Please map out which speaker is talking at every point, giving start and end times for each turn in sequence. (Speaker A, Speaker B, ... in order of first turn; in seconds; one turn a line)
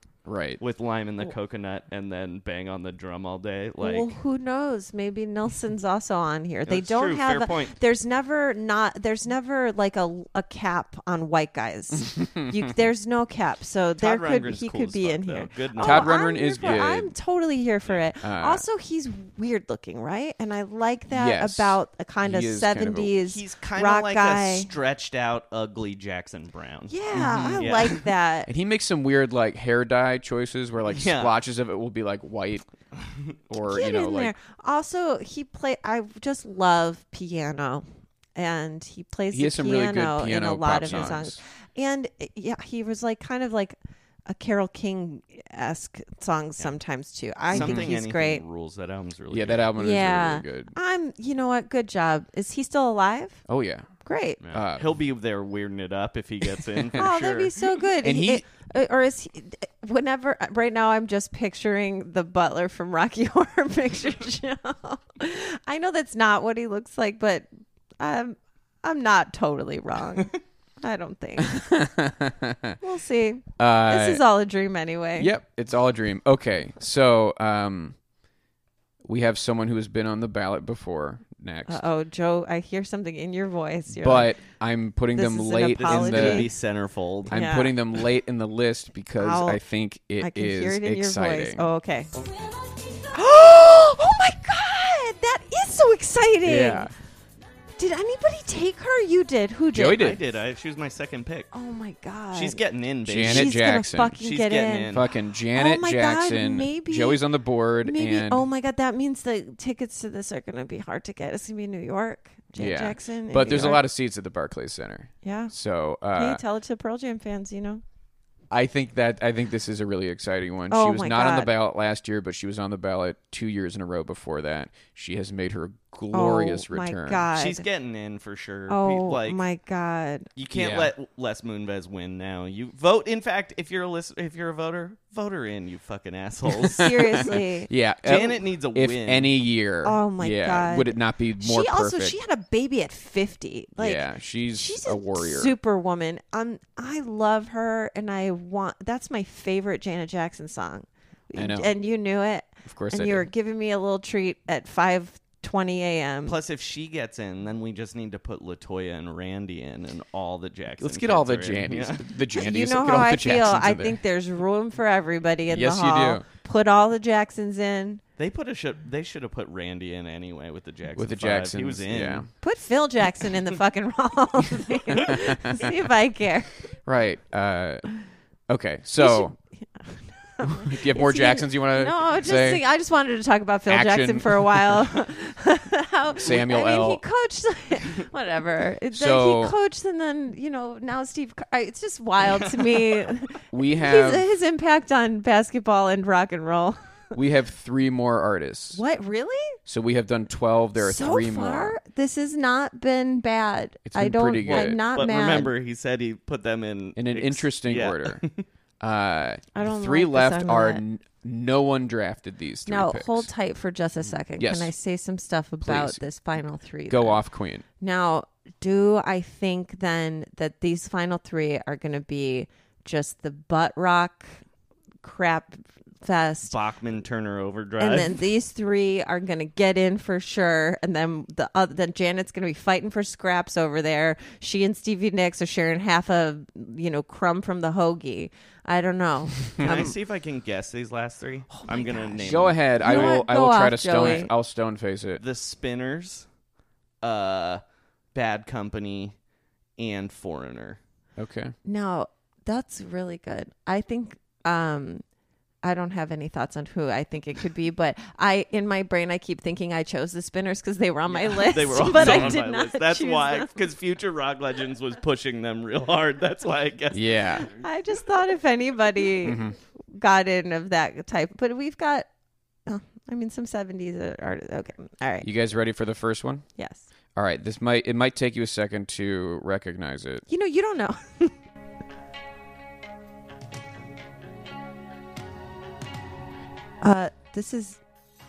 Speaker A: 0.3-0.6
Speaker B: 0.6-4.1
Speaker C: 3.8-24.7
Speaker B: 6.7-7.8
Speaker A: 12.0-12.5
Speaker B: 14.0-16.9
Speaker A: 15.8-17.1
Speaker A: 18.2-18.6
Speaker A: 21.1-23.1
Speaker B: 23.3-28.1
Speaker C: 26.9-28.5
Speaker A: 27.1-27.7
Speaker A: 28.5-32.7
Speaker B: 30.9-31.3
Speaker B: 33.1-33.3
Speaker A: 33.5-34.3
Speaker C: 33.7-48.4
Speaker A: 39.3-41.4
Speaker B: 40.9-41.1
Speaker B: 47.5-49.7
Speaker A: 47.5-47.9
Speaker A: 49.3-50.8
Speaker C: 49.8-53.4
Speaker A: 53.5-53.9
Speaker C: 54.0-54.4
Speaker B: 54.4-57.8
Speaker A: 54.5-54.9
Speaker A: 56.7-57.0
Speaker C: 57.0-67.5
Speaker A: 58.0-58.4
Speaker C: 68.0-71.8
Speaker A: 71.5-72.8
Speaker C: 72.8-75.3
Speaker A: 73.6-74.2
Speaker A: 75.2-78.0
Speaker A: 79.0-81.9
Speaker C: 81.7-84.3
Speaker A: 83.9-86.5
Speaker C: 85.2-86.5
Speaker B: 85.8-87.4
Speaker C: 87.3-87.7
Speaker A: 87.3-91.6
Speaker C: 89.2-89.6
Speaker C: 90.2-92.1
Speaker C: 93.1-96.9
Speaker A: 96.4-96.9
Speaker C: 97.8-100.1
Speaker A: 99.7-100.2
Speaker B: 100.0-101.5
Speaker C: 101.5-102.6
Speaker B: 102.3-103.6
Speaker A: 103.1-104.2
Speaker C: 103.2-105.0
Speaker B: 104.2-105.1
Speaker A: 104.9-108.5
Speaker C: 105.5-107.2
Speaker C: 107.8-113.8
Speaker A: 112.5-116.4
Speaker C: 115.2-115.5
Speaker C: 116.1-117.8
Speaker A: 118.5-127.3
Speaker C: 120.7-121.5
Speaker C: 126.1-127.7
Speaker B: 127.3-129.4
Speaker C: 128.7-130.3
Speaker B: 130.4-137.3
Speaker A: 130.5-130.9
Speaker C: 136.7-137.7
Speaker A: 137.7-142.2
Speaker B: 138.0-139.3
Speaker C: 139.8-156.4
Speaker A: 143.8-145.5
Speaker A: 151.3-151.7
Speaker A: 152.7-153.3
Speaker B: 156.3-162.1
Speaker A: 160.8-164.0
Speaker C: 162.3-168.0
Speaker A: 165.5-166.2
Speaker B: 168.2-172.3
Speaker A: 171.0-172.3
Speaker C: 172.4-176.5
Speaker A: 174.9-175.7
Speaker A: 176.8-177.8
Speaker A: 178.5-179.3
Speaker C: 179.0-196.8
Speaker A: 180.4-182.6
Speaker A: 183.7-184.9
Speaker A: 186.2-187.0
Speaker A: 188.9-189.6
Speaker A: 193.5-194.2
Speaker A: 197.1-198.8
Speaker C: 198.7-199.6
Speaker A: 199.7-201.8
Speaker C: 200.8-205.5
Speaker A: 203.9-204.8
Speaker B: 204.5-208.4
Speaker A: 207.0-208.2
Speaker A: 208.8-213.3
Speaker C: 209.5-210.8
Speaker C: 212.7-217.2
Speaker A: 214.4-214.7
Speaker A: 215.6-216.0
Speaker A: 216.9-217.6
Speaker C: 217.8-224.4
Speaker C: 225.0-226.5
Speaker B: 226.5-228.2
Speaker C: 227.8-239.9
Speaker A: 239.6-239.9
Speaker B: 239.6-243.2
Speaker C: 241.5-244.3
Speaker A: 242.2-245.2
Speaker B: 245.2-246.3
Speaker B: 247.0-247.6
Speaker B: 248.1-249.1
Speaker B: 249.8-250.8
Speaker A: 251.2-251.5
Speaker C: 251.7-255.0
Speaker C: 255.6-263.5
Speaker B: 261.1-267.2
Speaker A: 261.9-262.4
Speaker A: 266.9-267.5
Speaker C: 267.4-272.1
Speaker A: 269.2-269.6
Speaker C: 272.7-275.3
Speaker A: 275.2-276.5
Speaker C: 276.6-276.9
Speaker A: 277.1-280.2
Speaker C: 280.3-281.3
Speaker C: 286.8-287.8